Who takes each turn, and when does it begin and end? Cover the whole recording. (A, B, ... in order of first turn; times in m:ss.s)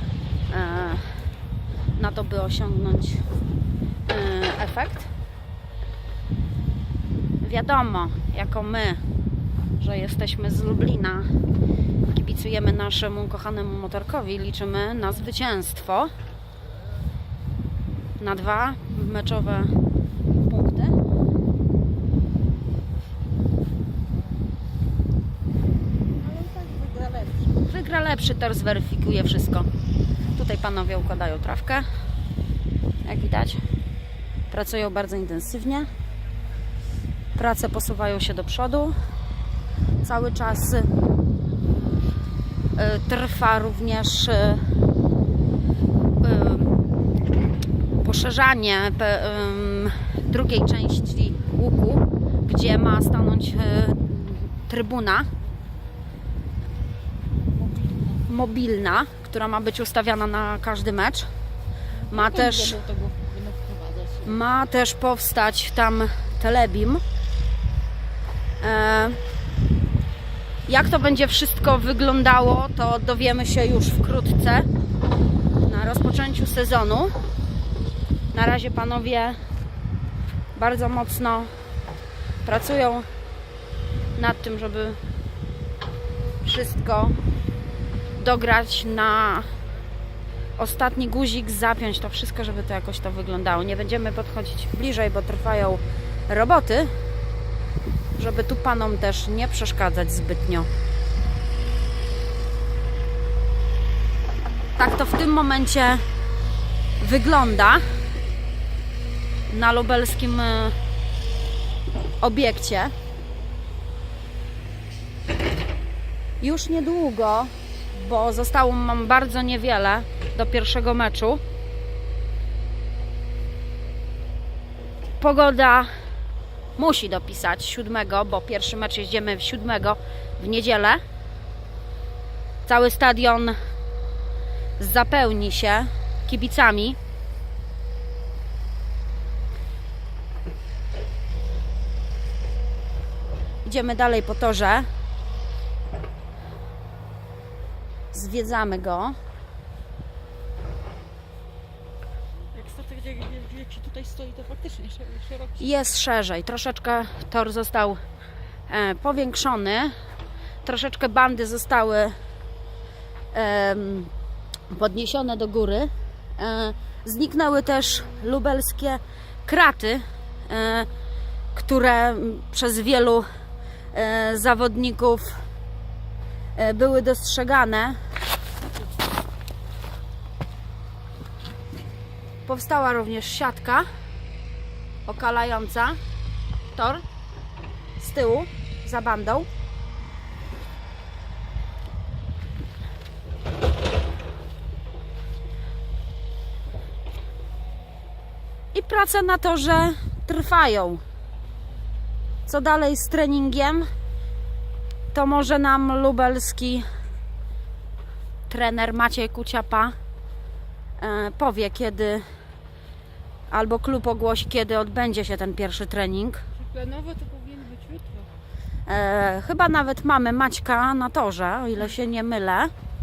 0:00.5-0:01.0 A
0:02.0-0:03.2 A
0:04.1-0:05.1 A
0:07.4-0:09.0 A
0:09.8-0:11.3 A
0:12.1-0:16.1 A
0:18.2-0:19.7 A
0:20.4-0:21.0 A
0:26.1-0:27.5 B
0:27.7-0:29.7 A
0:30.4-0:31.8 A
0:33.0-0:33.6 A
0:34.5-0:35.9 A
0:37.4-0:39.0 A
0:40.0-0:40.9 A
0:42.8-0:44.6 A
0:46.2-0:46.7 A
0:48.0-0:55.3 A
0:57.5-0:58.2 B
0:58.3-1:01.3 A
1:02.0-1:04.4 B
1:02.1-1:02.8 A
1:04.3-1:07.0 A
1:08.6-1:09.2 A
1:10.7-1:14.7 A
1:15.6-1:17.1 A
1:18.3-1:19.4 A
1:20.6-1:21.5 A
1:22.4-1:23.1 A
1:24.2-1:25.0 A
1:26.4-1:27.2 A
1:28.2-1:29.5 A
1:30.6-1:36.9 A
1:38.2-1:40.7 A
1:44.8-1:46.0 A
1:47.0-1:47.8 A
1:49.5-1:50.8 A
1:52.2-1:52.9 A
1:56.4-2:01.4 A
2:05.2-2:05.9 A
2:06.8-2:11.0 A
2:12.7-2:13.6 A
2:14.8-2:17.0 A
2:23.6-2:24.9 A
2:28.1-2:29.2 A
2:32.5-2:35.7 B
2:35.6-2:38.0 A
2:38.7-2:39.9 A
2:40.6-2:42.1 A
2:43.3-2:44.1 A
2:44.7-2:50.9 A
2:51.6-2:53.3 A
2:53.9-2:55.4 A
2:56.6-2:58.0 A
3:02.5-3:03.9 A
3:05.1-3:06.0 A
3:06.7-3:07.0 A
3:08.0-3:09.5 A
3:18.7-3:21.0 A
3:22.5-3:23.9 A
3:25.1-3:26.8 A
3:28.5-3:30.0 A
3:31.0-3:32.2 A
3:33.5-3:36.4 A
3:36.6-3:38.3 B
3:38.9-3:42.7 A